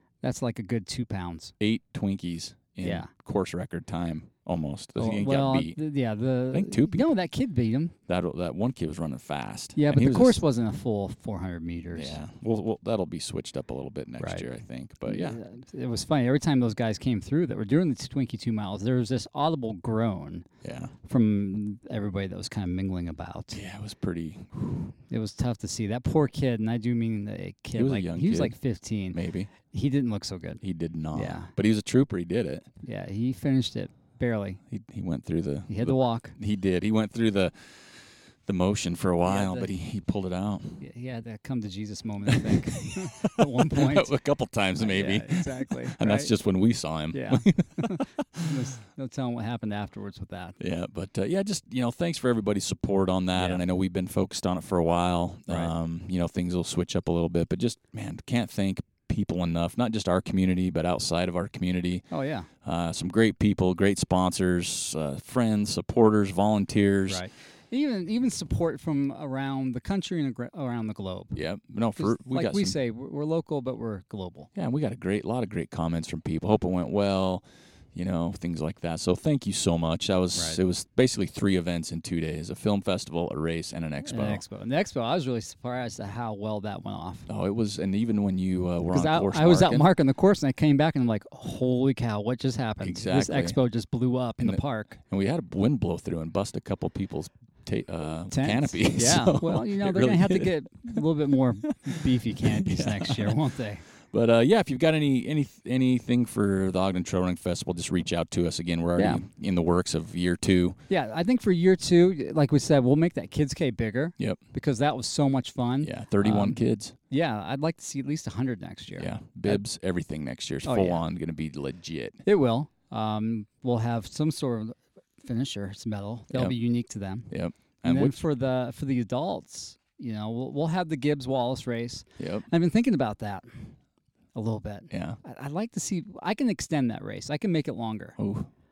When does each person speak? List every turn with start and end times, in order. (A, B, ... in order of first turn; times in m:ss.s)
0:00.2-0:01.5 A
0:01.6-0:05.8 B
0:02.8-0:03.1 A
0:05.0-0:08.0 A
0:06.5-0:07.1 B
0:08.1-0:10.4 B
0:09.8-0:12.2 A
0:11.9-0:15.4 B
0:14.2-0:14.5 A
0:15.1-0:20.4 A
0:20.6-0:20.9 B
0:21.0-0:23.6 A
0:23.5-0:24.6 B
0:25.1-0:30.6 A
0:27.8-0:28.6 B
0:29.1-0:29.5 B
0:30.6-0:32.7 B
0:31.1-0:31.5 A
0:32.8-0:34.6 A
0:34.7-0:40.8 B
0:35.7-0:36.3 A
0:39.2-0:39.7 A
0:40.8-0:44.1 A
0:42.3-0:48.5 B
0:44.8-0:46.3 A
0:47.1-0:50.6 A
0:50.6-1:02.0 B
0:53.4-0:53.6 A
1:02.1-1:02.5 A
1:02.6-1:07.2 B
1:07.1-1:11.4 A
1:11.3-1:12.8 B
1:12.0-1:14.5 A
1:14.6-1:24.4 B
1:24.0-1:27.3 A
1:27.3-1:29.8 B
1:28.9-1:35.0 A
1:32.8-1:33.6 B
1:34.4-1:41.0 B
1:38.3-1:43.8 A
1:41.9-1:43.4 B
1:44.1-1:50.8 B
1:49.0-1:49.2 A
1:50.9-1:59.6 A
1:55.8-1:56.9 B
1:59.0-2:02.2 B
2:00.6-2:01.0 A
2:02.2-2:07.3 A
2:07.3-2:08.2 B
2:07.8-2:13.7 A
2:12.2-2:12.5 B
2:14.3-2:18.2 A
2:14.9-2:15.2 B
2:18.2-2:18.5 B